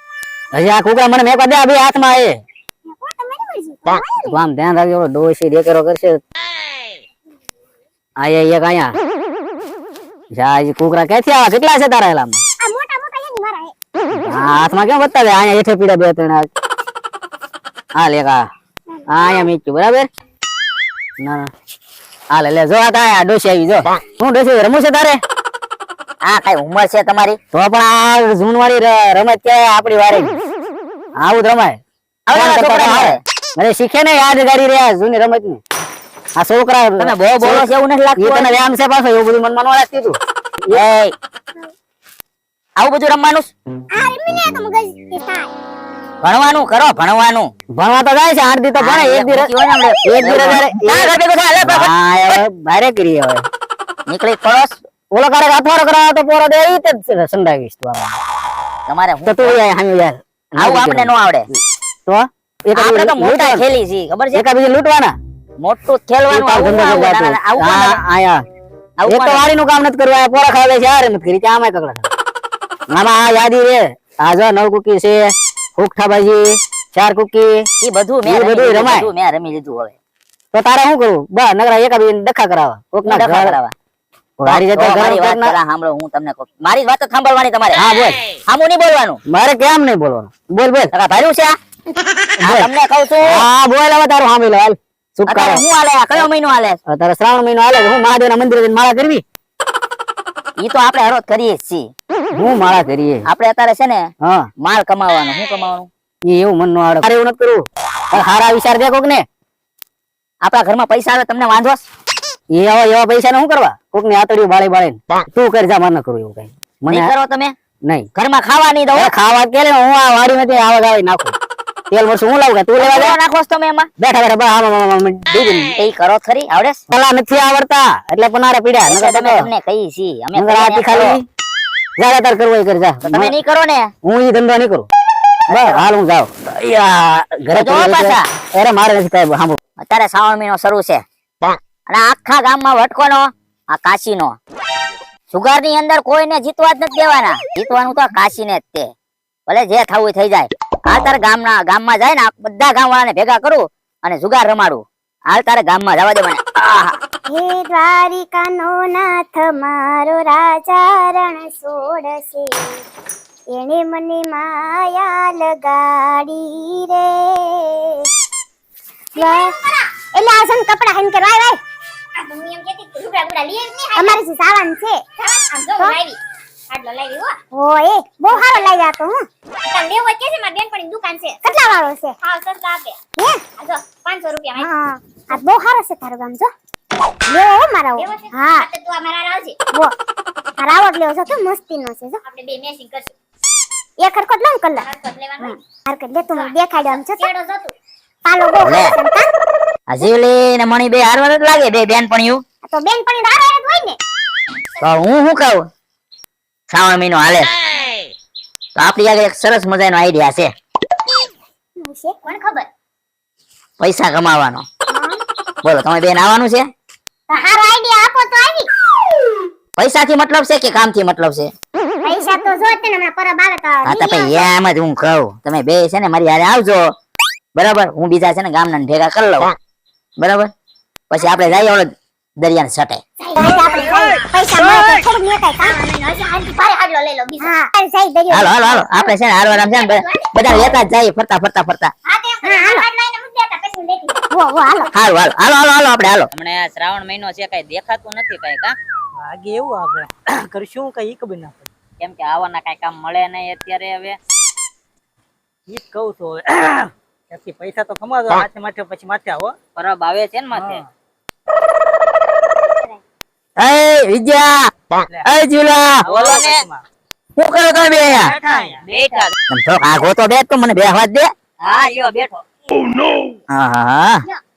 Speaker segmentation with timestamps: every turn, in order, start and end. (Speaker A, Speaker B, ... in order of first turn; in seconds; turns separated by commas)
Speaker A: 0.5-2.4, Speaker B: 2.9-4.4, Speaker A: 4.3-6.2, Speaker A: 8.2-9.0, Speaker A: 10.3-12.4, Speaker B: 12.6-13.7, Speaker A: 14.2-16.5, Speaker A: 17.9-18.5, Speaker B: 18.9-19.5, Speaker A: 19.1-20.1, Speaker A: 21.2-21.5, Speaker A: 22.3-25.2, Speaker C: 26.2-27.4, Speaker A: 27.5-30.4, Speaker A: 31.2-35.6, Speaker C: 32.3-33.2, Speaker A: 36.4-40.8, Speaker C: 37.0-38.6, Speaker C: 40.7-41.1, Speaker C: 42.8-43.5, Speaker B: 43.9-45.5, Speaker C: 46.2-47.5, Speaker A: 47.7-49.5, Speaker C: 48.8-51.9, Speaker A: 50.0-53.5, Speaker C: 54.1-54.8, Speaker A: 55.1-58.2, Speaker C: 58.9-59.6, Speaker A: 59.3-63.6, Speaker C: 60.6-61.5, Speaker C: 62.8-64.4, Speaker A: 64.3-65.2, Speaker C: 65.6-68.0, Speaker A: 66.3-68.5, Speaker C: 69.0-69.5, Speaker A: 69.0-72.1, Speaker A: 72.9-77.6, Speaker C: 77.8-80.0, Speaker A: 78.2-79.1, Speaker A: 80.5-83.6, Speaker C: 83.1-83.7, Speaker A: 84.4-85.5, Speaker C: 84.5-87.8, Speaker A: 87.8-88.2, Speaker C: 88.5-89.2, Speaker A: 89.3-90.9, Speaker C: 90.9-91.6, Speaker A: 92.4-92.7, Speaker C: 92.4-93.5, Speaker A: 93.2-95.7, Speaker C: 95.3-96.8, Speaker A: 96.9-99.2, Speaker C: 100.6-101.9, Speaker A: 102.3-103.3, Speaker C: 103.3-104.1, Speaker A: 104.2-104.5, Speaker C: 104.6-105.9, Speaker A: 106.2-109.3, Speaker C: 110.4-111.8, Speaker A: 112.5-117.1, Speaker C: 116.9-117.6, Speaker A: 117.8-118.1, Speaker C: 118.2-119.1, Speaker A: 118.9-121.3, Speaker A: 121.9-123.2, Speaker C: 122.8-123.9, Speaker A: 124.0-125.7, Speaker C: 125.8-126.8, Speaker A: 126.9-129.5, Speaker C: 128.9-131.2, Speaker A: 130.3-131.3, Speaker A: 132.0-133.3, Speaker C: 133.1-133.9, Speaker A: 134.0-134.9, Speaker C: 135.5-135.8, Speaker A: 135.5-139.6, Speaker C: 137.5-138.3, Speaker C: 139.8-141.0, Speaker C: 141.9-144.4, Speaker C: 145.3-148.9, Speaker C: 149.5-157.0, Speaker B: 157.3-162.8, Speaker B: 163.5-168.0, Speaker D: 169.2-169.9, Speaker B: 169.2-169.6, Speaker B: 170.1-171.6, Speaker D: 172.2-174.2, Speaker B: 173.9-175.0, Speaker D: 175.2-176.2, Speaker D: 176.7-177.4, Speaker B: 177.5-179.2, Speaker D: 178.3-178.7, Speaker D: 179.6-181.5, Speaker B: 181.4-182.2, Speaker D: 182.2-183.0, Speaker B: 183.2-183.4, Speaker D: 183.6-184.7, Speaker B: 184.6-186.5, Speaker B: 187.3-188.7, Speaker D: 188.0-189.6, Speaker B: 190.6-192.2, Speaker D: 192.3-193.1, Speaker B: 194.0-197.3, Speaker D: 194.8-195.6, Speaker D: 196.3-197.8, Speaker B: 198.2-199.3, Speaker C: 198.6-198.9, Speaker C: 199.9-202.4, Speaker B: 202.6-204.0, Speaker C: 204.8-205.7, Speaker C: 206.7-207.5, Speaker C: 208.8-210.5, Speaker B: 211.8-212.2, Speaker D: 212.2-212.7, Speaker C: 213.8-214.7, Speaker B: 214.9-215.2, Speaker C: 215.6-216.7, Speaker B: 217.3-218.7, Speaker C: 219.8-221.5, Speaker B: 222.0-224.5, Speaker C: 223.8-226.8, Speaker C: 227.6-229.6, Speaker C: 230.2-230.5, Speaker C: 231.1-233.0, Speaker D: 233.3-233.6, Speaker B: 233.3-235.8, Speaker D: 235.6-237.5, Speaker B: 237.4-239.1, Speaker C: 238.3-241.9, Speaker D: 239.7-240.3, Speaker D: 242.1-244.2, Speaker B: 242.4-242.9, Speaker B: 244.3-244.9, Speaker C: 244.9-246.3, Speaker E: 246.3-248.7, Speaker F: 249.2-251.7, Speaker E: 252.0-254.2, Speaker F: 255.7-259.6, Speaker E: 259.8-260.8, Speaker F: 260.5-260.9, Speaker C: 263.6-264.7, Speaker C: 265.2-266.1, Speaker F: 266.0-266.8, Speaker E: 266.1-266.6, Speaker C: 267.4-268.4, Speaker F: 268.1-269.2, Speaker E: 268.5-269.3, Speaker C: 269.5-271.3, Speaker E: 271.6-272.4, Speaker C: 273.5-274.2